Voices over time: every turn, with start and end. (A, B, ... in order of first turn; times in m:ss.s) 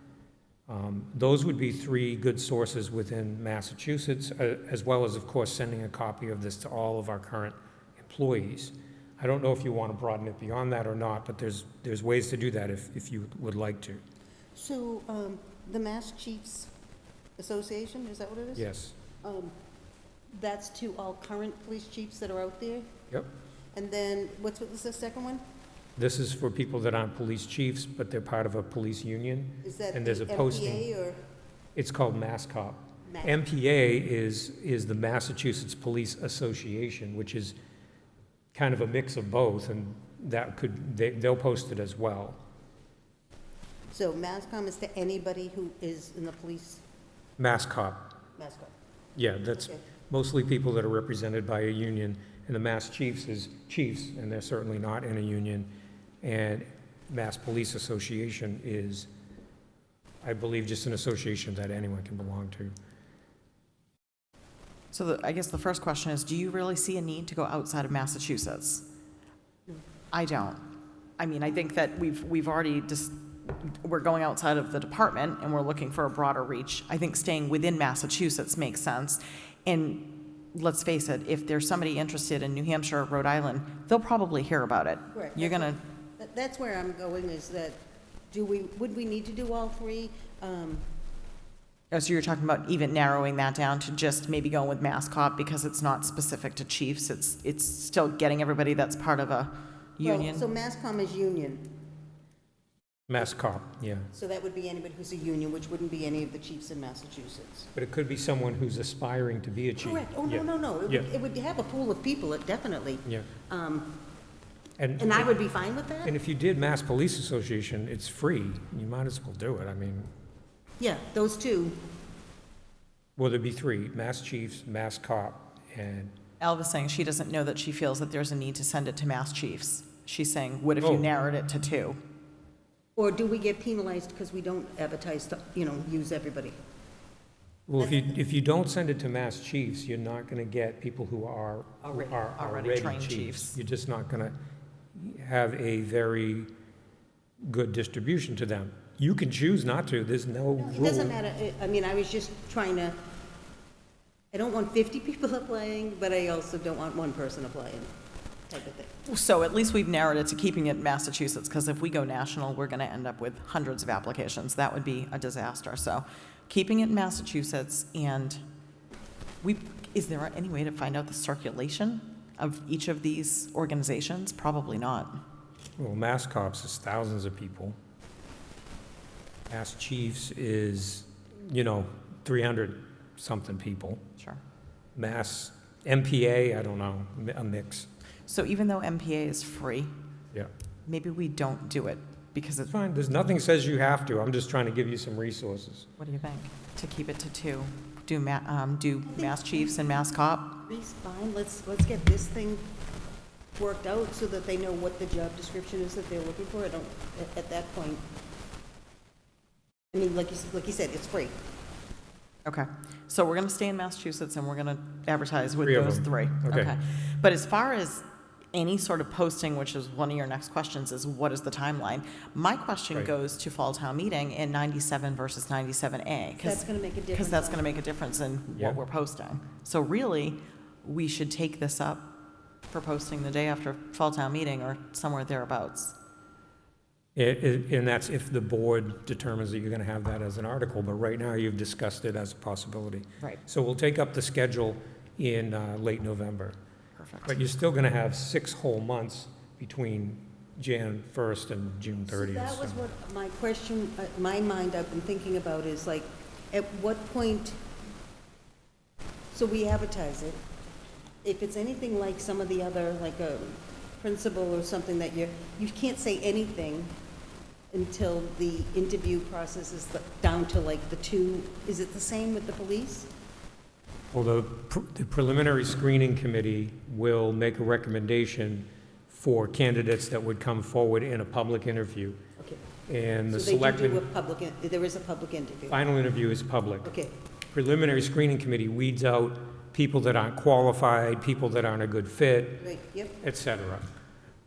0:00.7-0:14.0 A
0:14.6-0:16.7 B
0:17.4-0:18.6 B
0:18.6-0:19.0 A
0:19.2-0:19.5 B
0:20.4-0:22.9 B
0:23.8-0:25.4 B
0:26.0-0:30.8 A
0:29.6-0:31.2 B
0:31.8-0:37.6 A
0:33.1-0:33.3 B
0:38.5-0:42.4 A
0:43.9-0:46.8 B
0:47.4-0:48.2 A
0:48.4-0:48.7 B
0:49.2-0:55.7 A
0:49.5-0:49.8 B
0:56.2-0:59.1 A
1:00.2-1:02.7 A
1:04.9-1:08.9 C
1:10.1-1:10.7 C
1:11.2-1:25.8 C
1:25.1-1:30.9 B
1:31.9-1:40.4 C
1:40.0-1:41.7 B
1:43.1-1:44.1 A
1:44.1-1:47.7 B
1:47.8-1:51.1 A
1:49.8-1:53.9 B
1:54.8-1:55.3 A
1:55.0-1:56.1 B
1:56.0-2:00.1 A
2:00.8-2:01.8 B
2:03.2-2:06.2 A
2:06.4-2:12.0 C
2:10.8-2:11.1 A
2:13.0-2:16.6 B
2:17.7-2:24.4 A
2:17.8-2:18.1 B
2:21.8-2:23.6 C
2:25.0-2:26.5 A
2:27.4-2:31.2 A
2:30.6-2:33.0 B
2:34.3-2:37.9 B
2:38.5-2:38.9 B
2:39.0-2:48.4 C
2:49.4-2:55.2 C
2:55.8-2:57.8 A
2:59.5-3:04.0 A
3:05.0-3:07.9 A
3:08.3-3:09.9 C
3:10.9-3:12.7 C
3:12.7-3:15.9 A
3:16.0-3:20.6 C
3:20.6-3:22.7 B
3:23.6-3:28.0 B
3:29.9-3:31.4 B
3:32.5-3:52.2 C
3:35.6-3:36.8 A
3:46.4-3:47.6 B
3:52.7-3:56.0 C
3:57.2-4:06.6 A
4:07.0-4:07.4 C
4:07.2-4:12.8 A
4:12.0-4:17.6 B
4:19.3-4:20.4 B
4:21.2-4:26.9 B
4:27.7-4:33.1 B
4:34.1-4:42.2 A
4:42.9-4:44.0 A
4:43.3-4:45.8 B
4:45.7-4:46.9 A
4:46.8-4:47.1 B
4:47.5-4:52.7 A
4:52.6-4:53.2 B
4:53.2-4:53.9 A